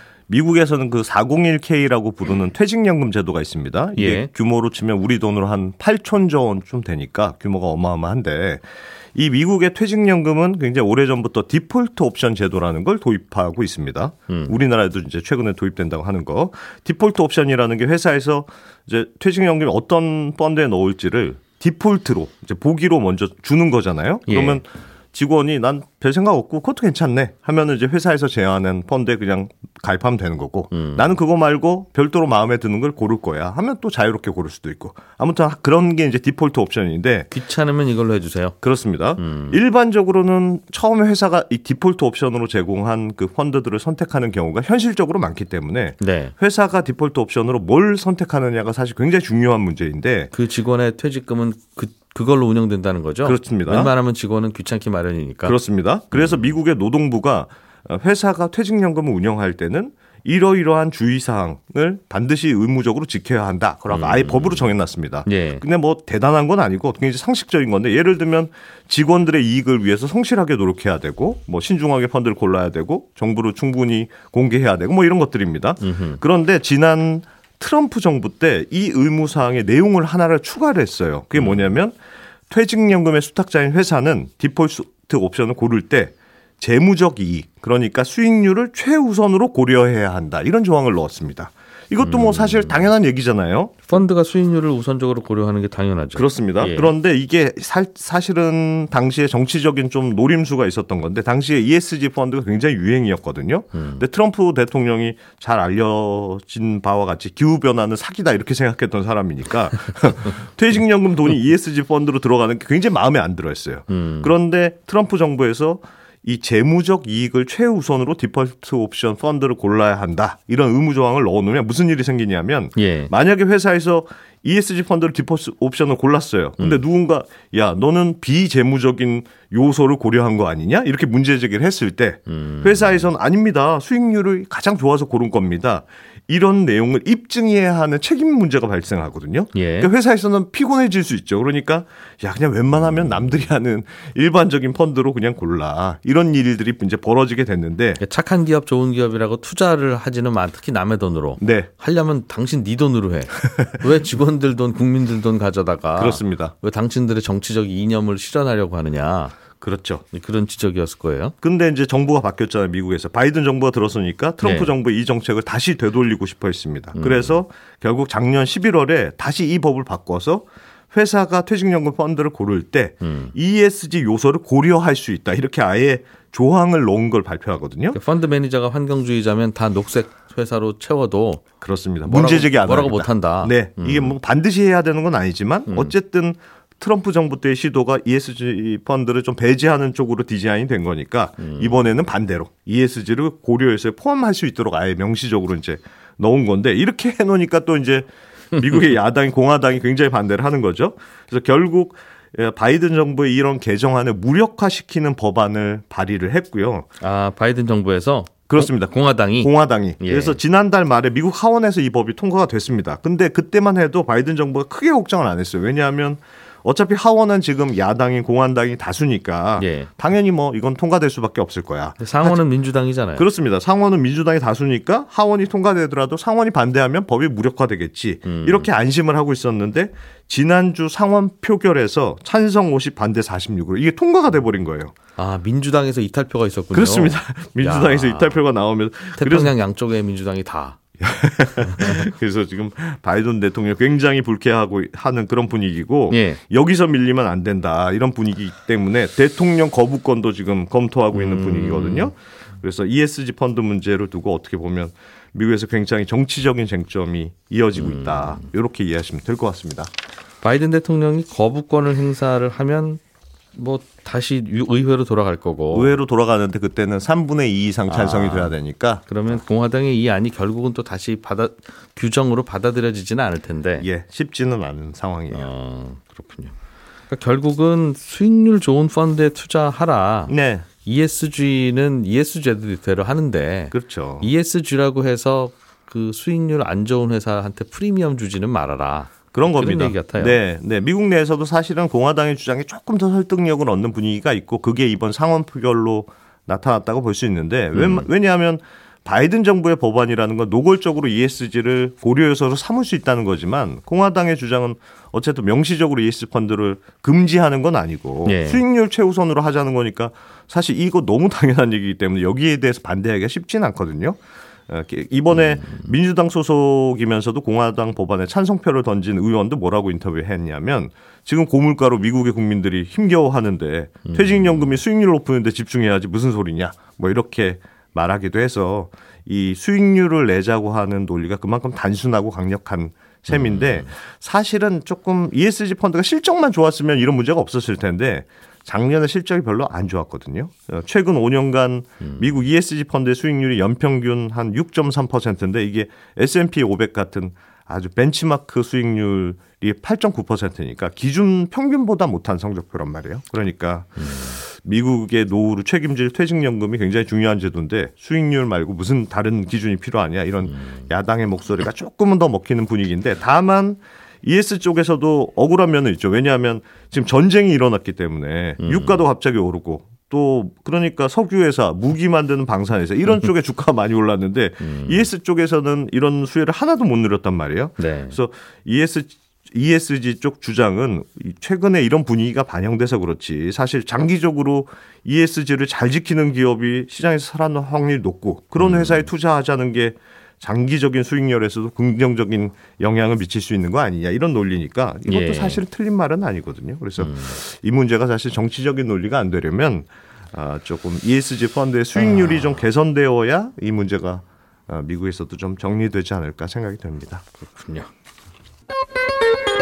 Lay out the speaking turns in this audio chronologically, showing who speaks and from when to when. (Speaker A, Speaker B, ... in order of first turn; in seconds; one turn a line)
Speaker A: 0.3-37.3
Speaker B: 4.0-4.3
Speaker B: 14.3-14.6
Speaker B: 24.3-24.6
Speaker B: 30.7-31.1
Speaker B: 37.3-38.6
Speaker A: 38.6-50.3
Speaker B: 39.2-39.6
Speaker B: 46.0-46.3
Speaker B: 50.3-55.5
Speaker A: 53.2-53.9
Speaker A: 55.4-82.0
Speaker B: 56.1-56.5
Speaker B: 63.9-64.7
Speaker B: 65.2-65.6
Speaker B: 75.8-76.2
Speaker B: 81.3-81.7
Speaker A: 82.5-93.8
Speaker B: 92.0-92.9
Speaker B: 93.9-96.9
Speaker A: 96.1-148.0
Speaker B: 103.7-104.0
Speaker B: 113.9-114.3
Speaker B: 122.8-123.1
Speaker B: 126.6-126.8
Speaker B: 132.3-133.1
Speaker B: 139.5-139.9
Speaker B: 148.0-159.3
Speaker A: 151.4-151.7
Speaker A: 156.0-156.5
Speaker A: 159.6-160.0
Speaker B: 160.1-161.3
Speaker A: 161.4-178.0
Speaker B: 164.4-164.7
Speaker B: 166.9-167.4
Speaker B: 173.0-173.3
Speaker B: 177.9-181.4
Speaker A: 181.6-206.9
Speaker B: 182.1-184.2
Speaker B: 185.7-185.9
Speaker B: 191.4-191.8
Speaker B: 207.0-210.4
Speaker A: 208.5-222.4
Speaker B: 219.6-219.9
Speaker B: 222.0-223.2
Speaker A: 223.2-234.9
Speaker B: 228.2-228.7
Speaker B: 235.2-238.4
Speaker A: 236.7-239.5
Speaker B: 239.2-240.8
Speaker A: 241.0-259.9
Speaker B: 241.6-242.0
Speaker B: 246.1-246.4
Speaker B: 251.1-252.1
Speaker B: 257.8-258.4
Speaker B: 260.4-263.0
Speaker B: 263.5-265.9
Speaker A: 265.7-269.0
Speaker B: 267.9-268.5
Speaker B: 269.1-273.9
Speaker A: 273.8-275.5
Speaker B: 275.3-276.5
Speaker B: 277.1-290.4
Speaker A: 280.3-280.6
Speaker A: 283.7-284.3
Speaker A: 289.3-407.2
Speaker B: 297.7-298.1
Speaker B: 308.2-308.6
Speaker B: 315.5-315.9
Speaker B: 324.1-324.8
Speaker B: 333.3-333.9
Speaker B: 342.0-342.3
Speaker B: 354.0-354.4
Speaker B: 360.5-360.9
Speaker B: 368.6-369.0
Speaker B: 374.6-375.1
Speaker B: 377.8-378.2
Speaker B: 388.6-389.1
Speaker B: 395.1-395.6
Speaker B: 397.0-397.4
Speaker B: 401.9-402.6
Speaker B: 407.3-407.9